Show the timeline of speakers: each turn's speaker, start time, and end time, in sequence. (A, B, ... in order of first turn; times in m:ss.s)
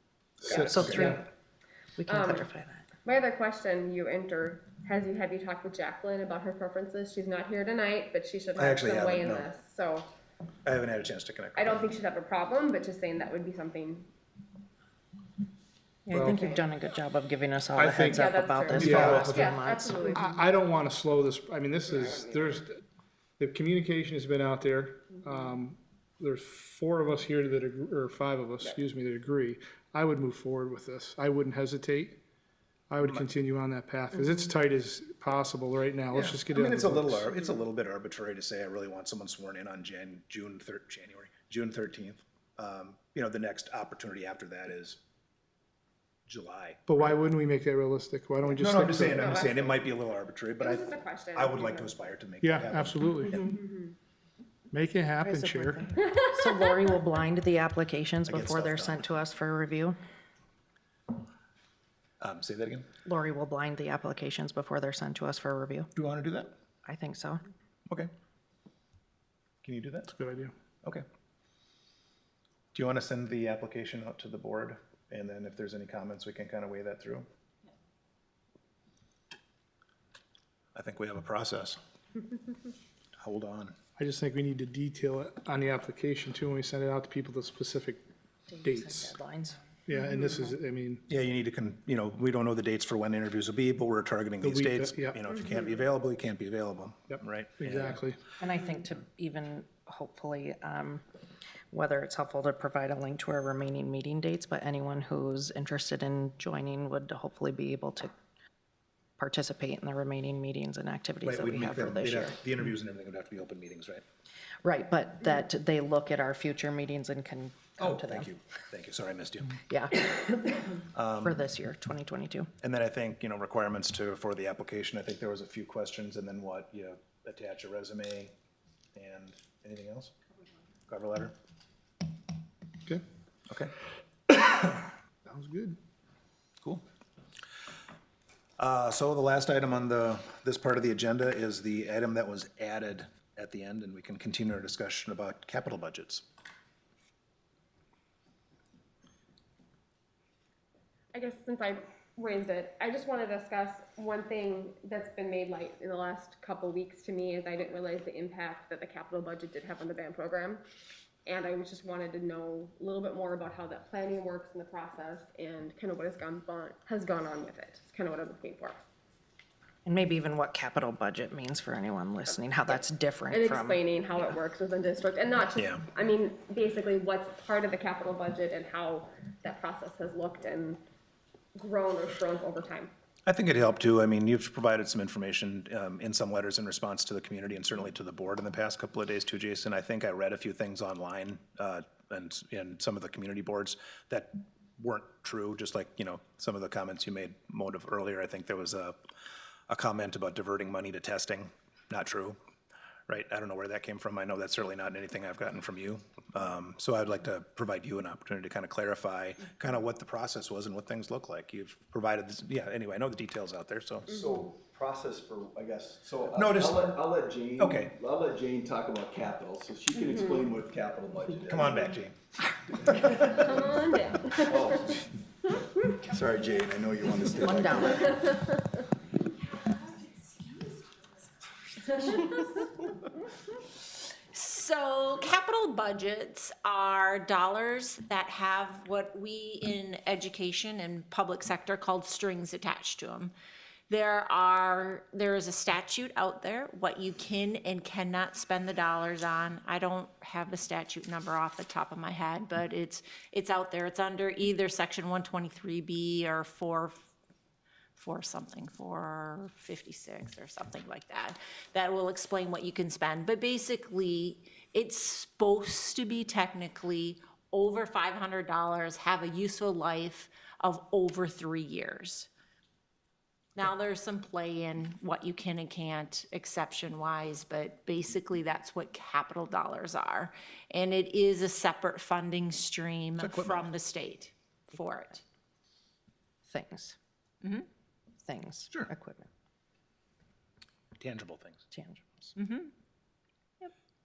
0:00.4-0:01.1 A
0:00.5-0:00.9 B
0:00.5-0:01.1 C
0:00.6-0:01.2 D
0:02.0-0:02.8 D
0:02.1-0:02.5 B
0:03.0-0:10.1 B
0:08.6-0:09.5 A
0:10.6-0:11.8 A
0:11.6-0:14.1 B
0:16.1-0:20.2 D
0:16.1-0:16.4 C
0:16.2-0:16.6 B
0:17.8-0:19.5 C
0:18.0-0:20.4 B
0:20.1-0:22.8 C
0:21.9-0:22.6 B
0:23.4-0:32.2 C
0:25.2-0:25.5 B
0:32.9-0:37.3 C
0:33.0-0:33.3 A
0:36.1-0:45.0 A
0:46.3-0:46.8 A
0:46.9-0:49.4 C
0:48.6-0:53.0 A
0:49.1-0:49.9 B
0:50.6-0:51.9 B
0:52.4-0:53.4 C
0:53.2-0:53.9 B
0:53.3-0:53.5 D
0:54.7-0:55.8 C
0:55.2-1:00.0 D
0:56.0-0:56.9 B
0:58.2-0:59.1 A
1:02.2-1:02.9 A
1:03.0-1:05.9 D
1:05.9-1:06.5 A
1:06.8-1:07.4 D
1:09.6-1:10.1 A
1:10.1-1:10.5 C
1:12.7-1:17.2 A
1:20.7-1:21.8 A
1:23.2-1:23.8 A
1:24.0-1:28.0 C
1:28.6-1:29.6 D
1:28.6-1:29.1 C
1:29.9-1:31.0 C
1:31.1-1:38.0 A
1:34.4-1:35.2 C
1:37.6-1:38.2 C
1:38.4-1:41.0 D
1:41.7-1:48.1 D
1:49.2-1:52.4 D
1:51.2-1:54.0 A
1:54.6-1:58.3 D
1:57.8-1:59.6 A
1:59.6-2:02.5 D
2:00.9-2:01.4 A
2:02.6-2:08.3 A
2:09.0-2:10.1 A
2:10.9-2:11.3 A
2:14.3-2:14.9 A
2:15.2-2:15.8 C
2:18.6-2:26.2 A
2:31.1-2:40.6 B
2:41.2-2:48.8 B
2:49.8-2:54.4 D
2:53.3-3:00.8 B
2:55.6-2:55.8 A
3:01.5-3:02.9 B
3:03.2-3:19.0 A
3:19.7-3:22.4 A
3:23.1-3:34.2 A
3:34.1-3:42.0 E
3:36.3-3:37.0 A
3:37.6-3:37.9 A
3:39.9-3:40.4 B
3:41.4-3:42.2 A
3:43.0-3:43.6 E
3:43.0-3:45.0 B
3:44.5-3:45.0 E
3:46.0-3:48.3 E
3:47.4-3:48.0 D
3:47.9-3:48.6 B
3:51.8-3:52.7 F
3:54.3-4:03.3 F
4:03.9-4:17.0 F
4:18.0-4:32.3 F
4:33.6-4:45.2 F
4:43.2-4:43.7 A
4:46.5-4:47.0 D
4:48.2-4:49.3 D
4:51.0-4:51.6 A
4:51.7-4:52.3 D
4:52.4-4:52.7 F